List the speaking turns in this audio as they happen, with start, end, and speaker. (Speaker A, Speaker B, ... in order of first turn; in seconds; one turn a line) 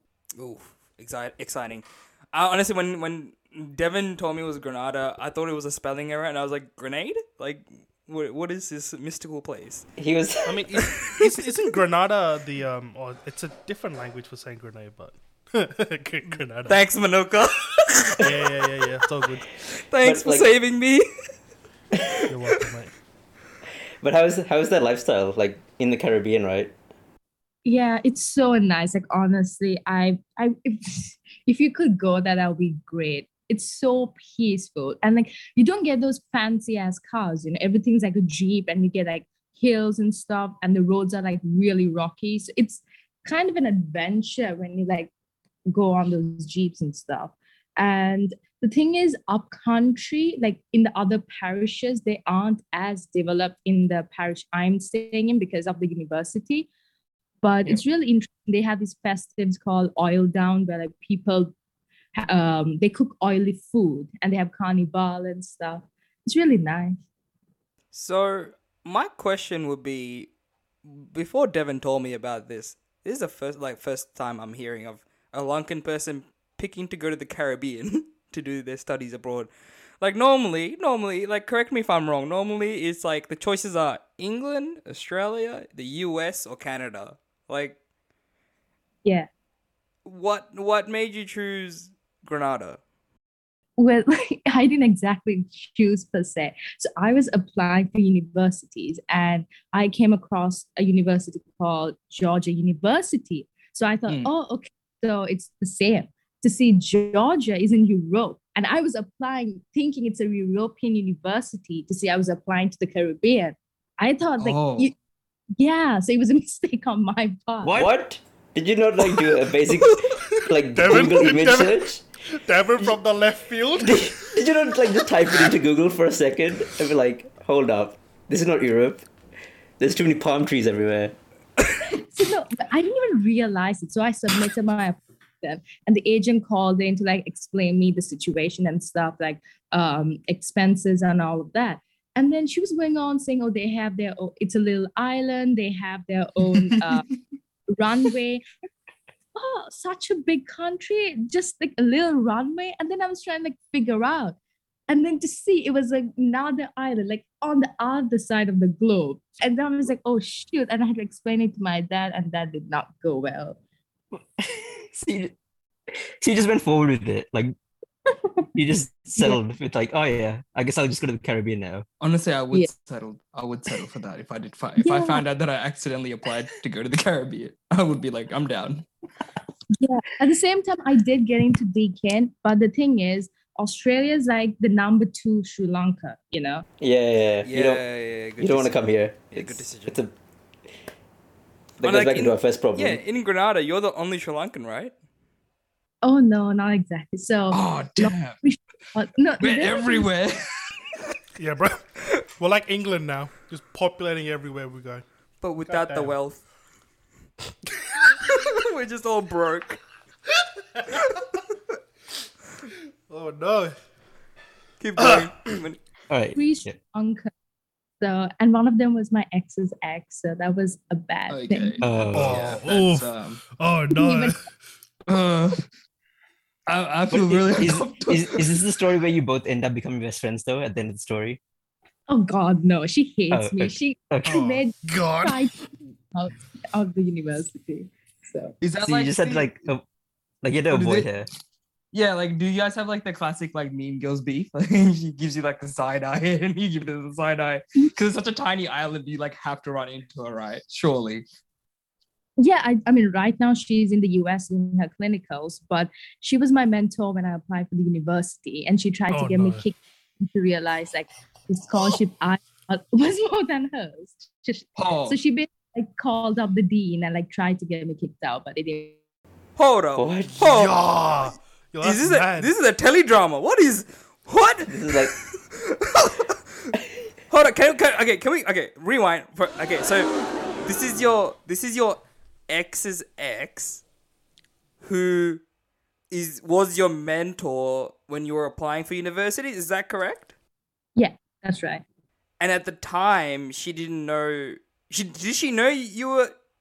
Speaker A: 0.4-9.8
Speaker B: 10.0-10.7
Speaker C: 10.4-16.8
Speaker A: 10.8-11.4
Speaker A: 16.7-18.2
Speaker C: 18.2-19.5
Speaker A: 19.7-21.1
Speaker B: 20.0-20.5
Speaker C: 22.3-22.9
Speaker B: 24.0-26.7
Speaker D: 27.6-45.1
Speaker D: 45.7-56.7
Speaker D: 57.4-61.5
Speaker D: 62.1-67.0
Speaker A: 67.9-70.3
Speaker A: 70.8-87.8
Speaker A: 90.0-92.8
Speaker D: 93.8-114.9
Speaker E: 114.4-114.9
Speaker D: 115.6-117.8
Speaker B: 117.6-122.0
Speaker C: 120.3-124.2
Speaker B: 123.8-129.1
Speaker B: 129.8-131.2
Speaker D: 131.9-147.0
Speaker D: 147.7-148.4
Speaker D: 149.3-154.3
Speaker D: 154.9-163.6
Speaker B: 164.4-165.3
Speaker B: 166.2-167.5
Speaker B: 168.5-171.8
Speaker E: 172.0-178.8
Speaker D: 174.8-175.2
Speaker D: 179.7-186.6
Speaker B: 186.8-187.8
Speaker A: 187.4-190.0
Speaker B: 188.4-190.1
Speaker B: 191.8-193.0
Speaker A: 191.8-194.9
Speaker D: 196.0-200.1
Speaker E: 197.5-198.4
Speaker E: 199.4-200.7
Speaker C: 201.4-201.8
Speaker C: 202.4-205.0
Speaker A: 205.4-206.4
Speaker C: 205.7-206.1
Speaker A: 208.2-209.8
Speaker C: 210.8-211.3
Speaker C: 213.1-213.7
Speaker A: 214.8-215.8
Speaker C: 215.0-215.3
Speaker B: 216.1-216.8
Speaker D: 216.3-217.3
Speaker D: 218.0-221.8
Speaker E: 221.3-223.4
Speaker B: 221.8-222.6
Speaker C: 222.1-224.4
Speaker D: 223.9-224.3
Speaker E: 225.1-225.6
Speaker E: 226.7-228.5
Speaker B: 227.1-231.4
Speaker D: 232.1-238.6
Speaker B: 233.3-234.4
Speaker C: 234.2-235.5
Speaker E: 238.6-239.5
Speaker B: 238.8-239.8
Speaker B: 240.4-241.3
Speaker E: 240.7-241.1
Speaker E: 241.9-251.2
Speaker D: 252.4-269.0
Speaker C: 259.1-259.6
Speaker E: 264.8-265.2
Speaker A: 269.6-270.8
Speaker B: 269.9-270.4
Speaker C: 270.4-272.5
Speaker A: 271.8-276.8
Speaker B: 274.7-275.1
Speaker A: 277.3-283.8
Speaker A: 284.8-285.4
Speaker A: 286.1-290.3
Speaker D: 290.9-291.8
Speaker A: 292.4-296.3